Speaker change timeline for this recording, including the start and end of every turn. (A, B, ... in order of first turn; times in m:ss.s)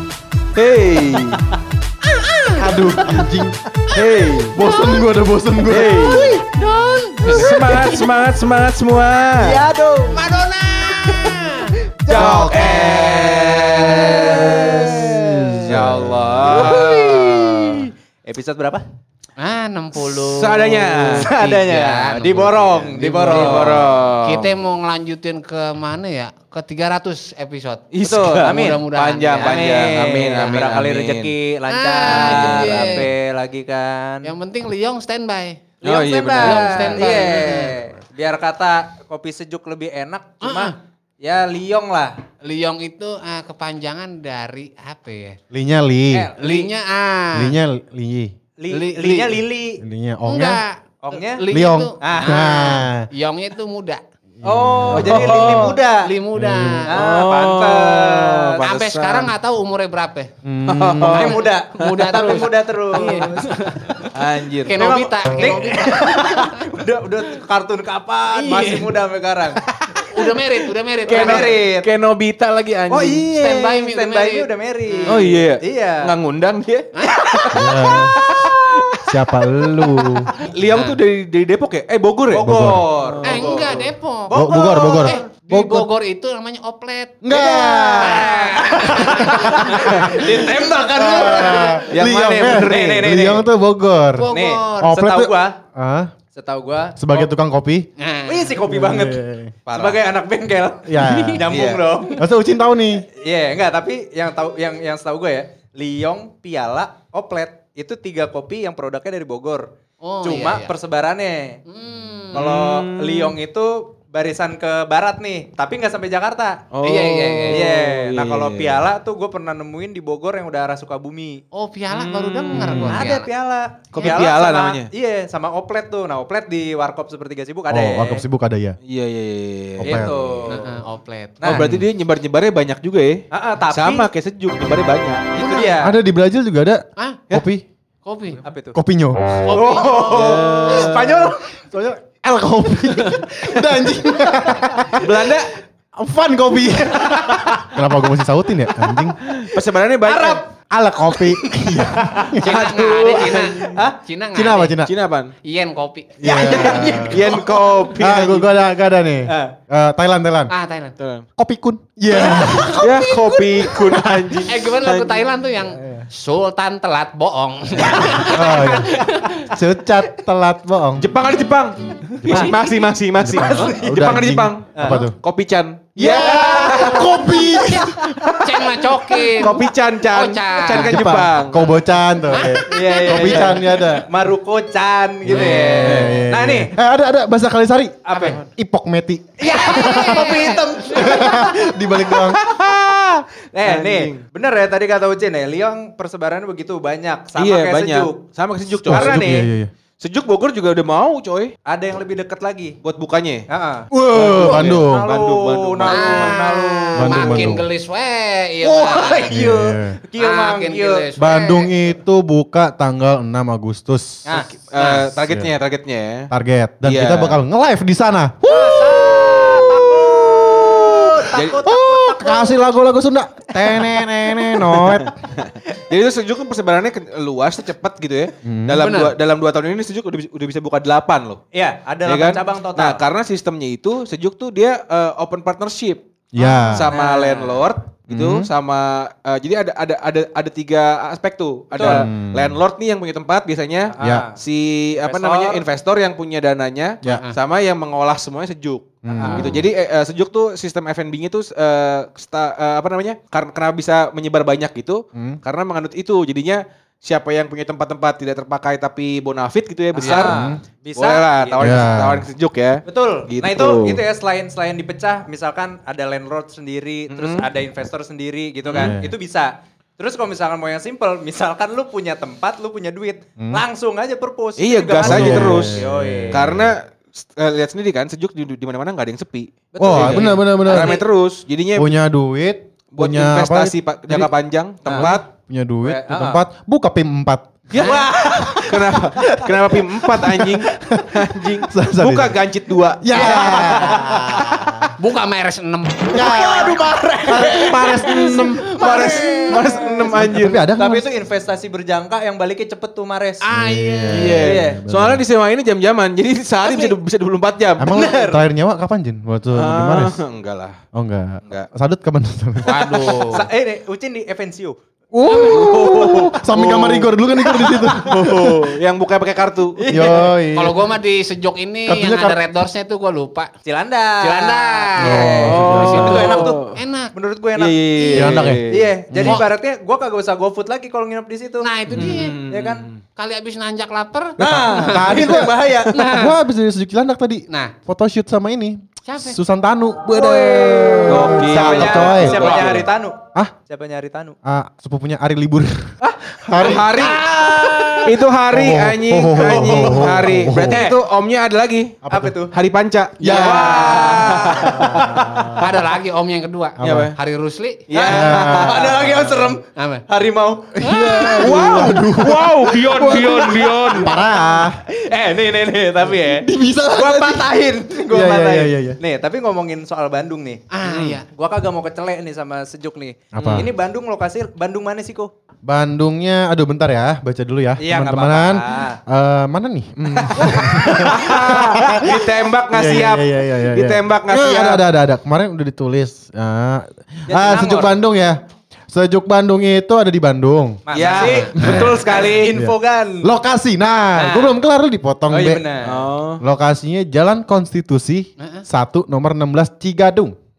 0:00.5-0:01.4 A
0:02.0-0:03.3 B
0:02.5-0:03.6 C
0:03.9-0:04.5 A
0:04.5-0:06.1 C
0:04.5-0:05.1 B
0:05.6-0:06.3 A
0:05.9-0:08.1 B
0:06.1-0:06.4 D
0:07.2-0:07.9 D
0:07.2-0:09.6 A
0:09.4-0:10.2 D
0:10.1-0:14.2 B
0:12.0-0:18.8 D
0:12.1-0:17.8 A
0:12.1-0:16.0 C
0:15.7-0:17.1 B
0:19.4-0:27.9 B
0:19.9-0:21.3 A
0:21.1-0:23.8 D
0:23.3-0:24.5 A
0:27.9-0:31.3 A
0:28.0-0:34.3 D
0:28.4-0:30.7 B
0:31.7-0:33.1 B
0:32.0-0:32.9 A
0:34.2-0:35.7 B
0:35.8-0:37.2 A
0:35.8-0:42.1 D
0:36.4-0:37.8 B
0:40.4-0:40.7 B
0:42.4-0:45.4 B
0:45.5-0:46.3 C
0:46.1-0:46.7 D
0:46.4-0:47.5 B
0:47.3-0:48.3 C
0:48.6-0:49.8 D
0:48.7-0:49.3 B
0:49.8-0:50.6 C
0:50.2-0:54.0 B
0:51.0-0:51.4 D
0:51.5-0:53.1 C
0:52.0-0:52.4 D
0:54.4-0:55.7 C
0:54.4-0:56.1 D
0:54.9-0:55.7 A
0:55.6-0:56.9 B
0:56.3-0:56.9 C
0:56.9-0:58.6 D
0:56.9-0:59.3 A
0:58.6-1:00.3 B
1:00.4-1:01.3 C
1:00.6-1:02.3 A
1:01.0-1:04.1 B
1:01.1-1:04.1 D
1:04.1-1:05.0 A
1:04.6-1:06.7 B
1:04.8-1:09.6 D
1:08.3-1:08.9 B
1:10.0-1:11.6 B
1:11.0-1:13.3 A
1:11.1-1:11.9 D
1:12.9-1:16.1 D
1:13.3-1:15.2 B
1:15.0-1:19.2 A
1:16.9-1:18.1 B
1:17.5-1:18.2 C
1:18.2-1:18.7 D
1:19.0-1:20.3 C
1:19.8-1:22.5 A
1:20.7-1:21.0 D
1:22.3-1:25.3 D
1:22.4-1:22.8 C
1:23.1-1:23.8 A
1:23.2-1:31.8 B
1:24.3-1:25.9 C
1:27.2-1:28.3 C
1:27.3-1:33.4 D
1:30.3-1:34.3 C
1:31.9-1:33.1 A
1:34.2-1:35.0 B
1:34.3-1:35.6 D
1:34.8-1:36.1 C
1:36.3-1:37.3 D
1:37.0-1:37.9 C
1:38.0-1:38.5 B
1:38.2-1:42.2 D
1:38.7-1:39.5 C
1:39.7-1:40.0 A
1:40.8-1:41.4 C
1:41.1-1:41.4 B
1:41.5-1:41.8 A
1:42.1-1:43.1 C
1:43.2-1:49.7 D
1:50.0-1:50.7 B
1:50.2-1:51.6 D
1:51.7-1:52.4 B
1:52.3-1:53.4 A
1:52.3-1:56.6 D
1:56.7-1:58.9 A
1:56.8-1:57.7 B
1:57.5-2:01.4 D
2:01.5-2:03.3 B
2:01.9-2:02.9 A
2:02.5-2:03.1 C
2:02.7-2:08.2 D
2:03.9-2:04.9 A
2:07.7-2:08.8 C
2:08.9-2:10.6 A
2:09.8-2:10.2 C
2:09.8-2:10.6 D
2:10.5-2:11.5 B
2:11.4-2:11.6 D
2:11.4-2:15.4 A
2:11.5-2:11.9 C
2:13.3-2:14.1 D
2:15.3-2:16.0 D
2:15.6-2:17.6 C
2:17.0-2:17.3 B
2:18.0-2:18.4 B
2:18.4-2:18.8 D
2:18.7-2:19.4 C
2:19.4-2:20.9 B
2:19.5-2:21.6 D
2:20.0-2:21.3 A
2:21.7-2:25.4 C
2:25.0-2:25.6 A
2:26.0-2:29.3 C
2:27.0-2:27.6 D
2:29.2-2:30.4 A
2:30.0-2:30.4 D
2:30.7-2:32.6 C
2:32.0-2:32.3 D
2:32.3-2:34.8 B
2:32.4-2:33.7 A
2:33.6-2:34.0 D
2:34.3-2:34.9 C
2:34.8-2:35.3 A
2:35.4-2:37.4 B
2:36.2-2:37.2 C
2:36.3-2:37.8 D
2:36.4-2:38.5 A
2:38.0-2:40.5 C
2:39.3-2:39.6 D
2:40.5-2:41.0 B
2:41.0-2:41.2 A
2:41.4-2:42.9 C
2:42.2-2:43.7 B
2:42.8-2:45.3 A
2:44.4-2:49.6 B
2:48.2-2:51.1 C
2:51.0-2:57.3 A
2:52.2-2:52.5 D
2:53.2-2:55.2 C
2:54.7-2:55.0 D
2:56.0-2:58.1 C
2:56.0-2:56.8 D
2:56.2-3:01.0 B
2:58.0-3:01.7 A
3:00.7-3:04.1 C
3:02.2-3:03.2 B
3:02.6-3:06.7 D
3:03.3-3:03.6 A
3:05.2-3:12.4 C
3:05.3-3:06.0 B
3:05.8-3:06.2 A
3:08.0-3:08.4 D
3:08.1-3:08.4 B
3:09.4-3:11.6 B
3:09.4-3:11.5 D
3:12.1-3:14.2 A
3:13.5-3:18.2 D
3:17.4-3:19.4 A
3:18.8-3:19.5 D
3:18.9-3:19.7 C
3:20.0-3:21.5 A
3:21.6-3:22.8 D
3:22.8-3:23.4 A
3:23.5-3:27.4 D
3:23.9-3:25.1 C
3:24.1-3:26.4 A
3:24.3-3:24.7 B
3:25.8-3:29.3 B
3:26.9-3:27.7 C
3:27.2-3:27.6 A
3:28.6-3:31.1 D
3:29.3-3:30.0 C
3:30.2-3:31.7 B
3:31.2-3:35.5 C
3:34.2-3:34.5 D
3:34.3-3:36.3 A
3:34.8-3:35.0 B
3:36.3-3:39.7 C
3:36.8-3:37.4 A
3:38.5-3:42.6 D
3:41.3-3:41.6 A
3:41.6-3:45.1 C
3:44.6-3:51.4 A
3:48.4-3:48.9 C
3:48.8-3:49.1 B
3:51.5-3:53.0 D
3:52.0-3:56.0 A
3:56.3-3:56.9 C
3:56.4-3:56.8 B
3:56.7-4:24.0 A
3:56.9-3:57.3 D
3:58.1-3:58.5 C
4:01.7-4:02.0 D
4:01.8-4:02.6 C
4:03.9-4:04.4 D
4:04.0-4:04.2 C
4:05.0-4:05.6 D
4:07.0-4:07.3 B
4:09.0-4:09.5 C
4:09.2-4:09.5 D
4:09.2-4:09.5 B
4:15.1-4:15.4 C
4:20.0-4:21.9 D
4:20.0-4:20.3 B
4:20.1-4:20.6 C
4:21.6-4:22.3 C
4:22.8-4:36.4 D
4:27.1-4:27.5 A
4:28.6-4:29.0 A
4:28.7-4:29.1 C
4:33.4-4:33.6 C
4:34.6-4:35.8 A
4:35.0-4:36.7 C
4:36.3-4:41.9 A
4:39.7-4:41.0 D
4:39.8-4:41.0 C
4:41.7-4:44.3 C
4:42.9-4:45.3 A
4:44.8-4:45.2 D
4:45.0-4:47.5 C
4:45.8-4:46.4 D
4:47.7-4:48.1 A
4:47.7-4:50.0 D
4:47.8-4:48.1 B
4:48.6-4:53.7 A
4:50.8-4:51.1 C
4:51.6-4:52.4 C
4:53.0-4:54.6 C
4:53.1-4:56.7 B
4:53.5-4:54.4 D
4:56.1-5:00.0 D
4:56.2-4:58.7 C
4:57.9-5:00.7 A
4:58.6-5:00.0 B
5:00.1-5:01.1 C
5:00.7-5:03.4 D
5:03.4-5:04.4 B
5:03.5-5:05.2 C
5:04.1-5:07.9 A
5:04.3-5:04.8 D
5:07.8-5:10.2 C
5:07.9-5:08.4 D
5:09.5-5:10.8 A
5:10.9-5:13.2 C
5:12.6-5:13.4 B
5:13.0-5:16.3 D
5:15.1-5:18.7 C
5:16.4-5:17.1 A
5:17.6-5:18.5 D
5:17.6-5:19.8 A
5:19.8-5:20.4 D
5:19.9-5:20.8 C
5:20.5-5:23.5 B
5:21.9-5:22.4 C
5:23.6-5:27.8 D
5:24.2-5:27.1 B
5:25.0-5:26.2 C
5:25.3-5:26.7 A
5:27.6-5:29.1 A
5:28.0-5:28.3 B
5:28.1-5:29.4 C
5:28.7-5:32.9 D
5:31.6-5:32.4 B
5:31.9-5:33.0 A
5:33.2-5:35.2 B
5:34.4-5:42.8 C
5:34.4-5:36.1 D
5:35.9-5:36.4 B
5:37.5-5:37.8 B
5:39.0-5:39.4 B
5:40.1-5:44.4 D
5:40.3-5:42.9 A
5:44.4-5:45.9 C
5:46.0-5:48.1 D
5:46.4-5:46.9 C
5:46.5-5:47.3 A
5:46.9-5:48.0 B
5:48.0-5:55.6 A
5:48.5-5:50.8 C
5:49.6-5:51.0 D
5:52.0-5:52.3 C
5:52.1-5:52.5 D
5:53.2-5:54.1 C
5:53.2-5:55.5 D
5:53.9-5:54.2 B
5:54.6-5:55.6 C
5:55.5-5:57.8 B
5:56.8-5:57.1 C
5:56.8-5:57.2 A
5:57.9-5:59.2 A
5:57.9-6:00.8 D
5:58.0-5:59.5 C
5:59.7-6:00.0 B
6:00.7-6:04.8 C
6:00.8-6:02.0 B
6:01.4-6:04.2 A
6:03.0-6:04.2 D
6:04.8-6:15.3 D
6:06.1-6:07.5 C
6:08.1-6:09.0 C
6:10.7-6:11.2 B
6:13.3-6:13.7 C
6:13.4-6:13.7 A
6:15.6-6:28.4 C
6:17.8-6:19.0 D
6:20.2-6:24.8 A
6:27.3-6:28.0 D
6:28.9-6:30.8 C
6:30.9-6:33.3 D
6:30.9-6:32.5 A
6:31.5-6:31.9 B
6:31.6-6:32.0 C
6:32.5-6:35.6 C
6:34.2-6:34.6 D
6:35.3-6:36.0 D
6:35.8-6:36.4 A
6:36.4-6:40.3 C
6:38.4-6:38.6 B